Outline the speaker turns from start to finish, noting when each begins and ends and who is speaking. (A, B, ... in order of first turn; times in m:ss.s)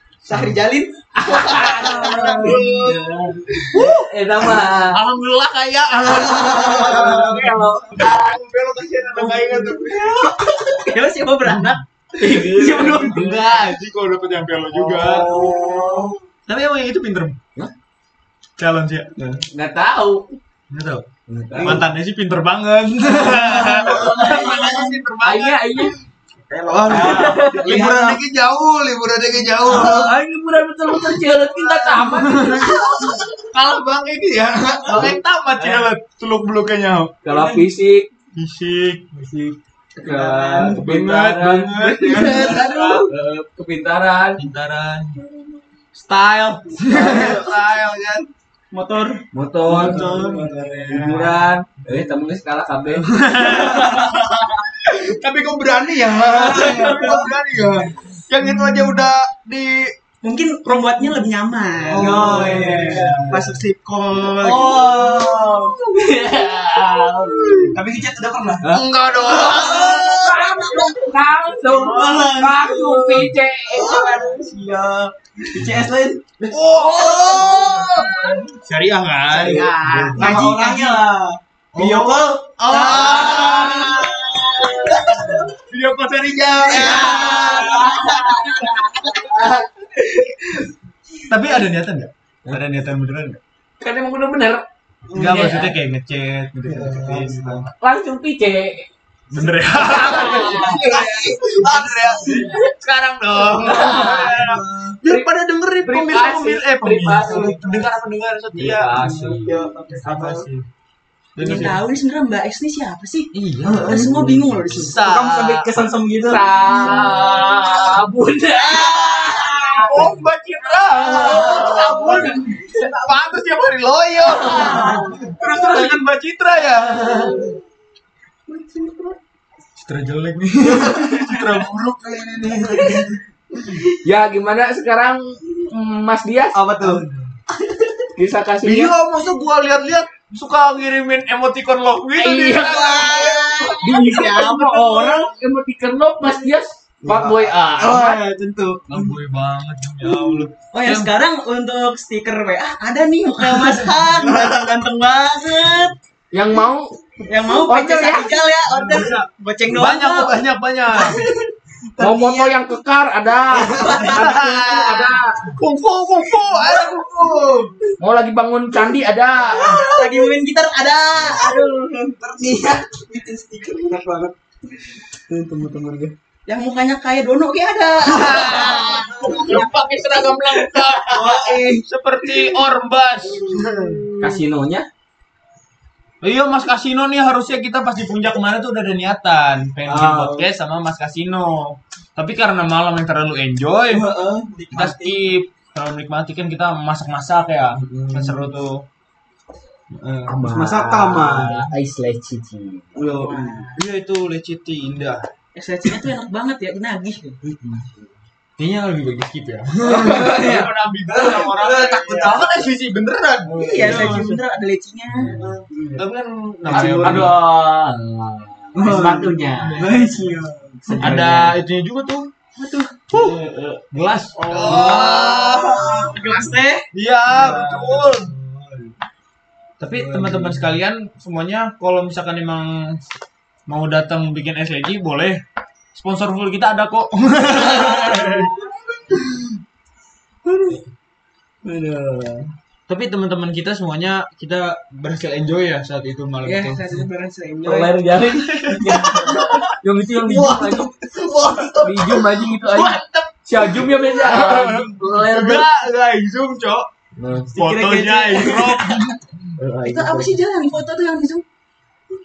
0:00.2-0:02.6 A
0:00.3-0:00.6 B
0:01.2-0:02.6 C
0:01.6-0:03.0 B
0:02.4-0:03.7 D
0:03.7-0:04.1 B
0:03.7-0:05.0 C
0:04.9-0:10.4 B
0:06.4-0:07.3 D
0:06.7-0:08.1 C
0:09.2-0:10.8 D
0:10.2-0:11.8 A
0:11.4-0:11.8 B
0:12.1-0:13.5 C
0:12.4-0:13.1 D
0:12.8-0:15.3 B
0:14.7-0:16.2 D
0:15.3-0:16.1 A
0:16.5-0:17.4 B
0:18.6-0:19.1 B
0:19.2-0:19.4 D
0:19.5-0:20.4 C
0:20.7-0:21.0 B
0:21.3-0:21.8 C
0:21.5-0:21.8 D
0:21.6-0:25.9 B
0:23.2-0:24.9 D
0:25.2-0:26.0 C
0:26.5-0:28.2 D
0:26.7-0:30.1 B
0:26.9-0:27.8 C
0:29.6-0:33.1 C
0:29.7-0:30.1 D
0:31.0-0:37.2 B
0:34.8-0:35.8 D
0:37.2-0:38.1 C
0:37.3-0:37.6 D
0:38.3-0:39.1 B
0:39.1-0:41.0 D
0:40.0-0:44.4 C
0:40.6-0:43.1 B
0:42.1-0:43.0 D
0:44.4-0:45.2 B
0:45.9-0:48.2 B
0:46.8-0:47.5 D
0:48.7-0:49.2 A
0:49.3-0:50.3 C
0:49.6-0:51.5 D
0:49.7-0:51.3 B
0:50.9-0:53.0 C
0:52.9-0:59.9 B
0:53.4-0:54.1 D
0:56.4-0:57.3 D
0:56.6-0:57.2 A
1:00.2-1:03.6 A
1:01.9-1:03.5 B
1:01.9-1:05.8 D
1:04.2-1:05.1 A
1:04.4-1:06.0 B
1:05.9-1:07.7 C
1:06.9-1:07.8 B
1:07.7-1:10.5 D
1:08.7-1:10.3 B
1:09.5-1:13.9 C
1:10.0-1:10.8 A
1:11.6-1:16.2 D
1:11.7-1:12.3 B
1:13.7-1:14.6 A
1:16.4-1:20.4 B
1:16.8-1:18.5 A
1:16.8-1:18.4 D
1:19.3-1:25.5 D
1:19.4-1:21.0 A
1:21.7-1:29.5 B
1:22.7-1:24.0 A
1:25.1-1:25.3 A
1:26.7-1:28.3 A
1:26.7-1:28.3 D
1:27.0-1:28.4 C
1:29.1-1:29.5 C
1:31.3-1:33.4 B
1:33.8-1:34.6 C
1:35.1-1:37.7 B
1:35.1-1:35.5 D
1:35.1-1:35.7 C
1:36.6-1:37.7 D
1:37.8-1:38.9 C
1:39.3-1:49.2 B
1:39.7-1:41.0 C
1:41.8-1:42.4 D
1:43.5-1:44.4 C
1:43.8-1:45.0 D
1:45.8-1:47.6 C
1:47.2-1:47.8 D
1:48.6-1:49.6 C
1:48.9-1:50.5 D
1:50.0-1:50.7 B
1:51.4-1:51.8 B
1:51.4-1:55.0 A
1:53.3-1:55.7 B
1:53.6-1:54.3 D
1:54.8-1:57.1 D
1:56.3-2:00.1 C
1:58.6-2:00.0 A
1:59.8-2:07.5 B
2:01.1-2:02.8 A
2:01.2-2:02.9 D
2:01.3-2:02.3 C
2:04.4-2:05.6 C
2:04.5-2:05.1 D
2:04.6-2:05.0 A
2:08.5-2:09.1 D
2:09.8-2:13.2 B
2:10.8-2:11.1 D
2:14.0-2:16.5 C
2:16.5-2:17.0 D
2:16.8-2:17.3 B
2:18.2-2:18.9 C
2:18.6-2:24.1 B
2:22.2-2:23.1 C
2:22.7-2:25.1 A
2:23.8-2:28.2 C
2:24.0-2:24.4 D
2:27.0-2:29.1 D
2:28.9-2:31.1 B
2:30.0-2:30.5 D
2:30.7-2:35.9 A
2:36.3-2:36.9 C
2:37.2-2:40.4 A
2:37.5-2:38.3 C
2:38.7-2:41.2 B
2:41.0-2:41.3 D
2:42.0-2:42.5 D
2:42.0-2:45.5 C
2:43.6-2:44.1 D
2:43.6-2:44.7 A
2:44.0-2:47.6 B
2:48.0-2:49.8 C
2:49.6-2:52.2 A
2:49.6-2:50.3 D
2:52.2-2:54.3 D
2:55.3-2:56.1 D
2:56.5-2:59.7 A
2:58.0-3:04.0 B
2:58.3-2:59.6 D
3:00.7-3:01.8 D
3:01.1-3:01.6 A
3:03.2-3:04.4 D
3:04.2-3:04.9 C
3:06.2-3:14.1 B
3:09.9-3:10.5 D
3:13.9-3:15.2 D
3:14.7-3:18.8 B
3:17.8-3:18.5 D
3:19.9-3:20.4 B
3:20.3-3:23.4 C
3:20.4-3:21.6 D
3:23.0-3:23.7 D
3:23.2-3:23.6 A
3:23.7-3:25.2 B
3:25.5-3:27.4 A
3:27.4-3:28.0 D
3:28.6-3:34.4 B
3:29.8-3:32.6 D
3:33.5-3:34.2 D
3:33.6-3:35.4 A
3:35.2-3:37.3 B
3:35.3-3:36.0 D
3:36.7-3:37.3 D
3:36.7-3:39.9 C
3:38.8-3:41.5 D
3:39.6-3:40.1 B
3:40.9-3:41.5 C
3:41.0-3:42.3 B
3:42.6-3:42.9 A
3:43.1-3:43.4 B
3:43.1-3:43.8 D
3:43.9-3:46.1 B
3:44.4-3:46.5 D
3:44.5-3:46.8 A
3:46.9-3:48.3 B
3:47.3-3:48.9 D
3:49.8-3:52.9 B
3:49.9-3:50.7 D
3:53.7-3:55.4 B
3:55.9-3:58.5 B
3:57.7-3:58.5 D
4:00.4-4:00.8 D
4:01.6-4:02.5 D
4:02.9-4:07.1 B
4:06.5-4:07.6 A
4:07.1-4:07.9 D
4:07.6-4:10.9 C
4:08.2-4:09.6 B
4:08.7-4:12.5 D
4:11.8-4:15.6 C
4:12.7-4:16.9 B
4:17.2-4:17.5 C
4:17.5-4:19.0 D
4:17.5-4:19.2 B
4:19.6-4:20.4 C
4:19.8-4:21.4 A